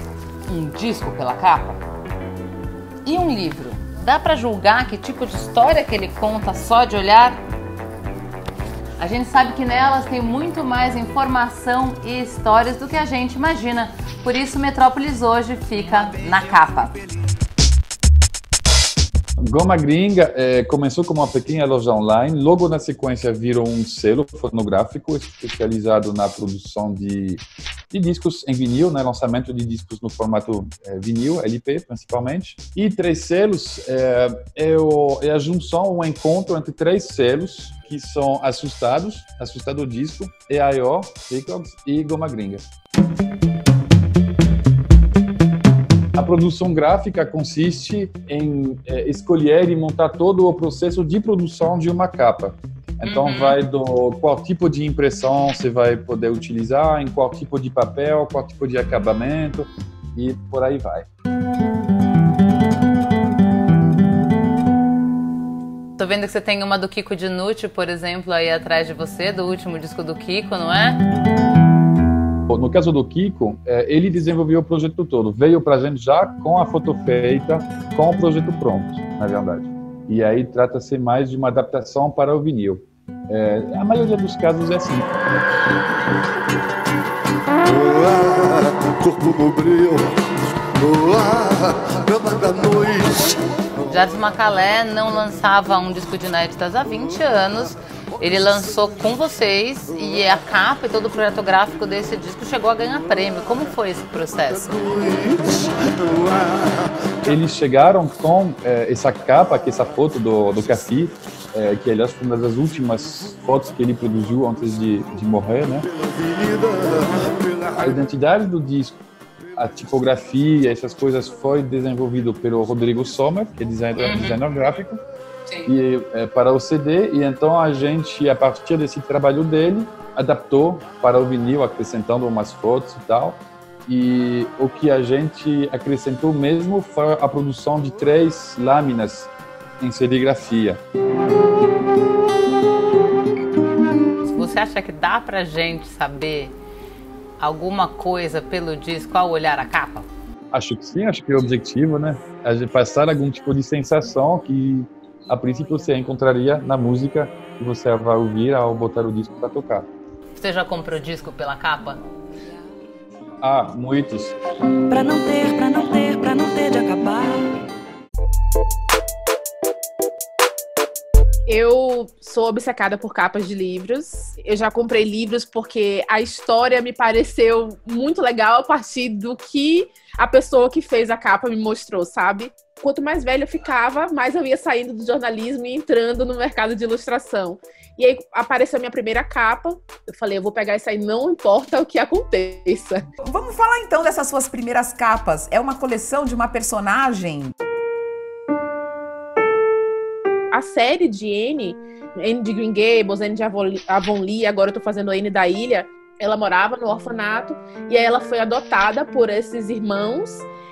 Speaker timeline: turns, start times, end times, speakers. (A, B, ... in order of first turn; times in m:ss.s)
0:00.5-0:01.8 A
0:03.0-0:07.4 A
0:09.0-0:17.0 A
0:19.4-0:42.6 B
0:46.2-1:01.0 B
0:53.0-0:53.6 A
1:06.0-1:11.0 A
1:12.5-1:25.1 B
1:33.8-1:45.1 A
1:47.2-1:55.9 B
1:57.8-1:59.0 B
1:59.6-2:05.0 B
2:04.0-2:04.4 A
2:05.7-2:20.8 B
2:24.2-2:26.5 A
2:27.4-2:30.0 A
2:30.5-2:39.9 B
2:40.4-2:42.0 A
2:43.4-2:44.3 B
2:44.9-2:47.5 C
2:51.5-3:13.0 D
3:13.2-3:17.5 E
3:20.5-3:30.5 D